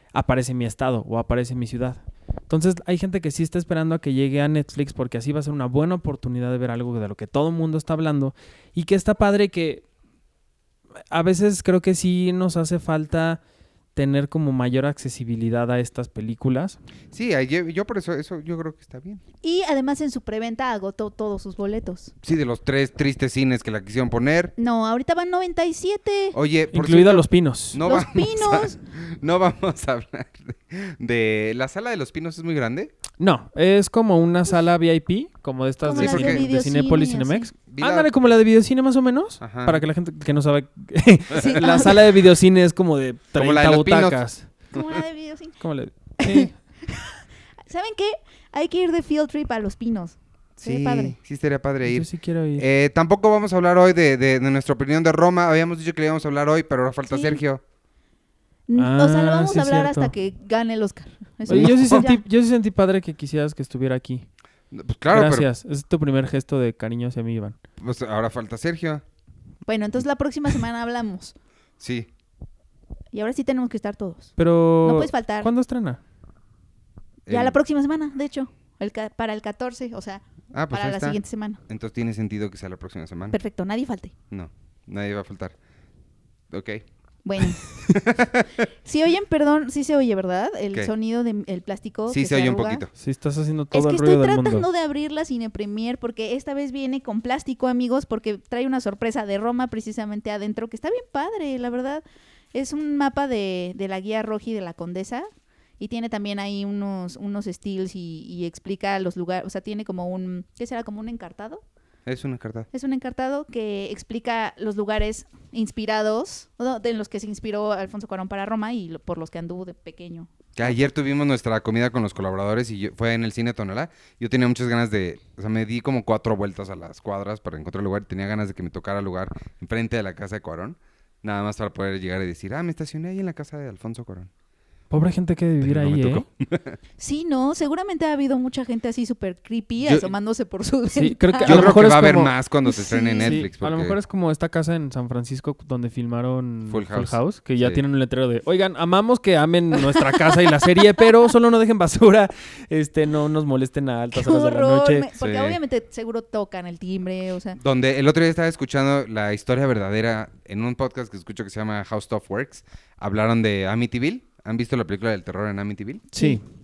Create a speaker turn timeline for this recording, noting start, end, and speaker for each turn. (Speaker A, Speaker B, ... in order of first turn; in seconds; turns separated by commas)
Speaker A: 0.1-9.8, Speaker A: 11.1-13.4, Speaker A: 13.9-16.8, Speaker B: 17.1-19.2, Speaker C: 19.4-22.1, Speaker B: 22.2-24.5, Speaker C: 24.6-26.4, Speaker B: 26.3-32.9, Speaker A: 26.7-27.8, Speaker C: 27.8-28.8, Speaker A: 33.2-44.5, Speaker C: 35.8-37.5, Speaker B: 36.0-36.4, Speaker B: 37.7-38.1, Speaker B: 39.4-39.8, Speaker C: 41.3-42.2, Speaker B: 43.4-44.2, Speaker C: 44.7-45.6, Speaker A: 45.6-46.5, Speaker C: 46.2-51.1, Speaker B: 50.6-57.6, Speaker A: 51.9-52.7, Speaker C: 57.1-57.4, Speaker C: 58.7-62.2, Speaker A: 58.8-60.1, Speaker A: 61.5-64.3, Speaker B: 61.5-62.0, Speaker B: 64.7-65.5, Speaker A: 65.1-67.6, Speaker B: 67.8-69.0, Speaker C: 69.7-71.3, Speaker B: 71.8-72.1, Speaker C: 73.1-75.5, Speaker A: 74.4-76.0, Speaker B: 77.3-77.6, Speaker C: 77.3-81.6, Speaker B: 80.5-83.4, Speaker C: 83.3-84.2, Speaker B: 84.3-85.5, Speaker B: 86.5-86.8, Speaker C: 87.2-87.8, Speaker B: 87.4-88.5, Speaker C: 88.8-92.8, Speaker B: 92.1-92.9, Speaker A: 93.0-94.7, Speaker C: 93.7-102.0, Speaker C: 102.5-105.3, Speaker C: 105.8-111.6, Speaker B: 112.1-112.7, Speaker C: 112.7-120.7, Speaker B: 120.6-134.3, Speaker A: 134.9-136.2, Speaker B: 135.6-136.8, Speaker C: 137.0-141.8, Speaker B: 139.8-140.1, Speaker A: 140.9-142.3, Speaker B: 141.4-144.0, Speaker C: 142.7-143.4, Speaker A: 143.2-155.1, Speaker B: 146.7-147.8, Speaker C: 149.8-151.1, Speaker C: 154.1-157.6, Speaker B: 155.2-155.6, Speaker B: 157.6-166.1, Speaker A: 166.1-166.4